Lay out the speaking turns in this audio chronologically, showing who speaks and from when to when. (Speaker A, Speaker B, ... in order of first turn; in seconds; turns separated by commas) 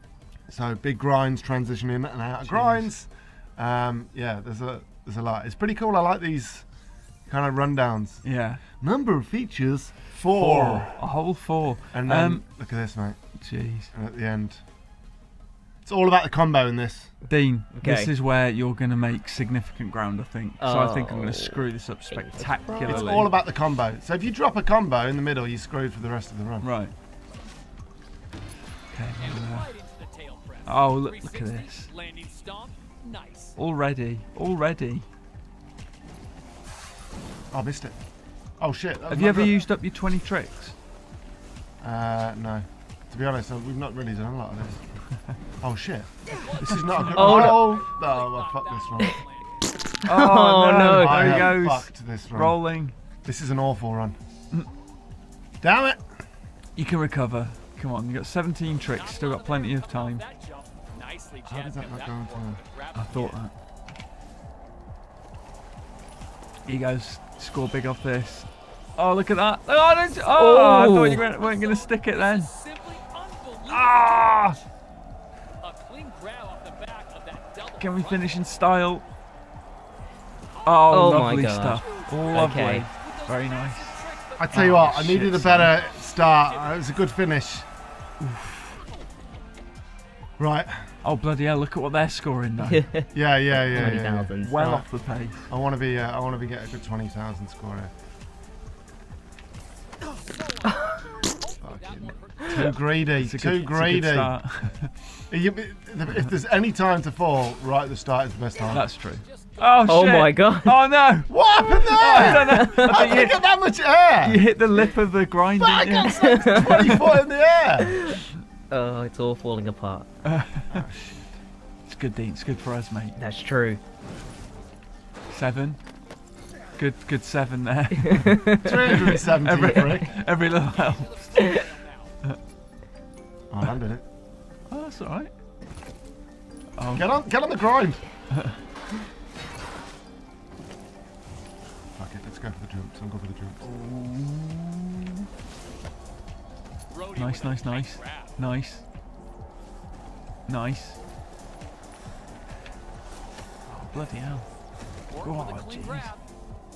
Speaker A: 0.5-6.7, Speaker B: 2.5-2.9, Speaker A: 7.3-8.2, Speaker B: 8.2-8.6, Speaker A: 8.8-11.0, Speaker B: 10.3-12.4, Speaker A: 11.9-13.3, Speaker B: 13.4-13.9, Speaker A: 13.9-14.6, Speaker A: 15.8-17.1, Speaker B: 17.3-23.3, Speaker C: 17.8-18.1, Speaker C: 20.6-23.0, Speaker A: 22.7-26.7, Speaker B: 26.6-26.9, Speaker B: 28.9-29.7, Speaker D: 29.2-33.5, Speaker B: 30.7-31.9, Speaker B: 33.6-35.1, Speaker A: 37.5-38.0, Speaker A: 38.6-39.6, Speaker B: 39.1-40.8, Speaker A: 41.8-44.8, Speaker A: 45.6-49.2, Speaker B: 46.5-47.7, Speaker D: 46.7-49.5, Speaker C: 47.1-47.8, Speaker C: 50.0-51.5, Speaker B: 50.0-52.9, Speaker A: 50.9-52.6, Speaker A: 53.2-54.2, Speaker A: 55.6-56.1, Speaker B: 56.8-60.2, Speaker D: 59.2-63.4, Speaker A: 61.5-62.6, Speaker B: 63.0-63.5, Speaker B: 66.7-72.5, Speaker C: 70.3-71.2, Speaker D: 71.8-74.6, Speaker B: 73.7-74.6, Speaker D: 75.6-77.7, Speaker B: 77.8-79.0, Speaker B: 80.6-85.7, Speaker C: 80.9-82.9, Speaker A: 84.4-87.7, Speaker A: 90.4-90.9, Speaker B: 91.0-92.9, Speaker C: 92.7-94.7, Speaker A: 93.1-94.9, Speaker B: 93.7-95.5, Speaker A: 95.5-97.9, Speaker A: 101.6-104.3, Speaker D: 102.4-102.7, Speaker B: 103.2-104.9, Speaker A: 105.3-108.8, Speaker B: 108.7-111.3, Speaker C: 109.9-110.8, Speaker A: 111.3-114.4, Speaker B: 111.8-113.3, Speaker C: 112.0-113.0, Speaker B: 114.2-116.9, Speaker A: 115.6-118.0, Speaker C: 115.8-117.0, Speaker C: 117.8-120.1, Speaker B: 120.2-120.9, Speaker A: 120.7-121.1, Speaker B: 121.9-123.2, Speaker C: 123.2-123.8, Speaker B: 125.3-125.8, Speaker B: 126.8-131.6, Speaker C: 128.1-129.0, Speaker A: 128.6-130.2, Speaker D: 130.8-131.9, Speaker A: 133.5-134.0, Speaker B: 134.7-135.3, Speaker B: 136.8-137.1, Speaker A: 136.9-138.0, Speaker A: 142.0-143.6, Speaker B: 143.6-145.2, Speaker D: 146.9-148.3, Speaker B: 147.2-148.8, Speaker B: 150.5-151.0, Speaker B: 153.7-154.5, Speaker B: 155.1-156.1, Speaker D: 155.2-156.2